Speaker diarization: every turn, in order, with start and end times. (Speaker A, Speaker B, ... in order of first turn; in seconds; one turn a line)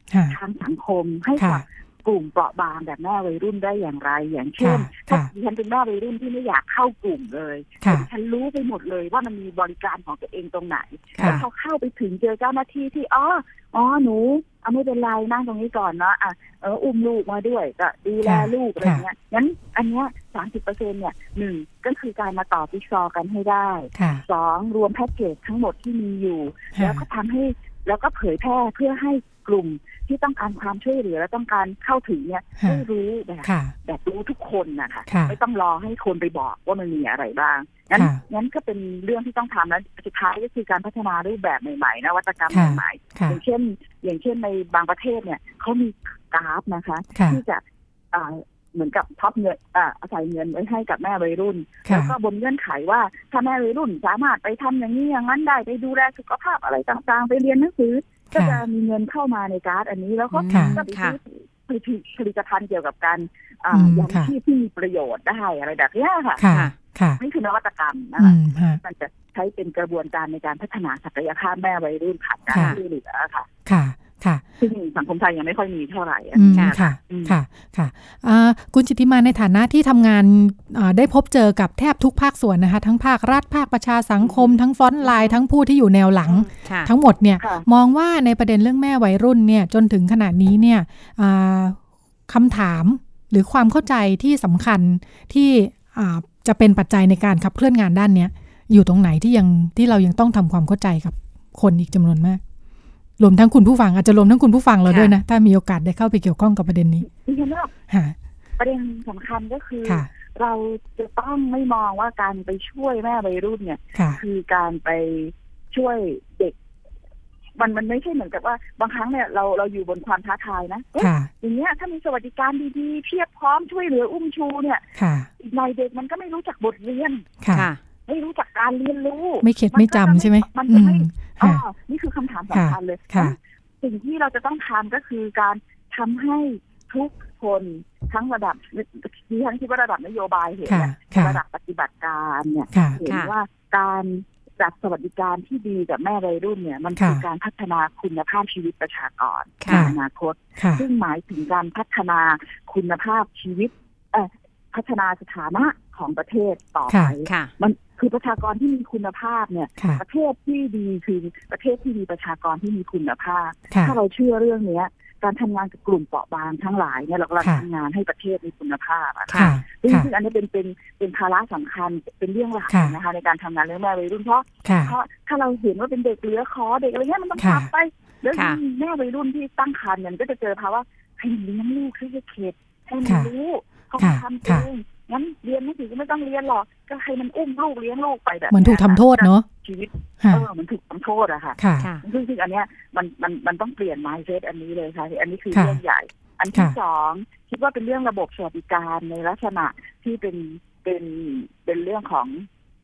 Speaker A: 0.1-0.4
Speaker B: 0.3-66.5
Speaker A: 1.4-1.6
Speaker A: 4.6-5.3
Speaker A: 7.8-8.1
Speaker A: 11.2-11.4
Speaker A: 18.2-19.1
Speaker A: 24.0-24.2
Speaker A: 26.8-27.0
Speaker A: 33.5-33.8
Speaker A: 35.1-35.4
Speaker A: 37.9-38.2
Speaker A: 42.5-43.4
Speaker A: 47.1-47.4
Speaker A: 51.9-52.1
Speaker A: 58.4-58.6
Speaker C: 60.3-61.2
Speaker A: 60.5-60.8
Speaker A: 63.7-64.3
Speaker A: 66.4-67.2
Speaker C: 66.5-66.7
Speaker B: 67.2-73.5
Speaker A: 68.2-68.8
Speaker A: 72.5-72.8
Speaker C: 72.5-72.8
Speaker A: 73.7-74.4
Speaker B: 74.6-77.4
Speaker A: 76.3-102.4
Speaker C: 76.5-76.8
Speaker B: 84.2-85.4
Speaker C: 86.6-86.9
Speaker B: 87.4-87.7
Speaker A: 103.2-107.1
Speaker C: 104.9-105.2
Speaker B: 107.0-107.7
Speaker A: 107.9-108.2
Speaker B: 108.6-116.5
Speaker A: 114.0-114.2
Speaker B: 117.6-124.9
Speaker A: 121.0-121.3
Speaker A: 125.0-125.3
Speaker B: 125.4-127.3
Speaker A: 127.4-127.7
Speaker C: 127.5-127.8
Speaker B: 128.1-202.5
Speaker A: 129.4-131.6
Speaker A: 132.5-133.4
Speaker A: 140.7-141.4
Speaker A: 142.7-143.0
Speaker C: 143.1-143.3
Speaker A: 147.0-147.2
Speaker C: 149.6-149.9
Speaker A: 149.7-150.0
Speaker A: 150.6-150.8
Speaker A: 156.9-157.2
Speaker C: 157.2-157.5
Speaker A: 163.7-164.0
Speaker C: 169.3-169.5
Speaker A: 169.3-170.1
Speaker A: 172.7-173.0
Speaker A: 174.7-174.9
Speaker A: 177.4-177.7
Speaker C: 178.3-178.6
Speaker A: 184.0-184.7
Speaker A: 188.5-189.5
Speaker A: 190.2-190.5
Speaker A: 191.6-191.9
Speaker A: 195.5-195.8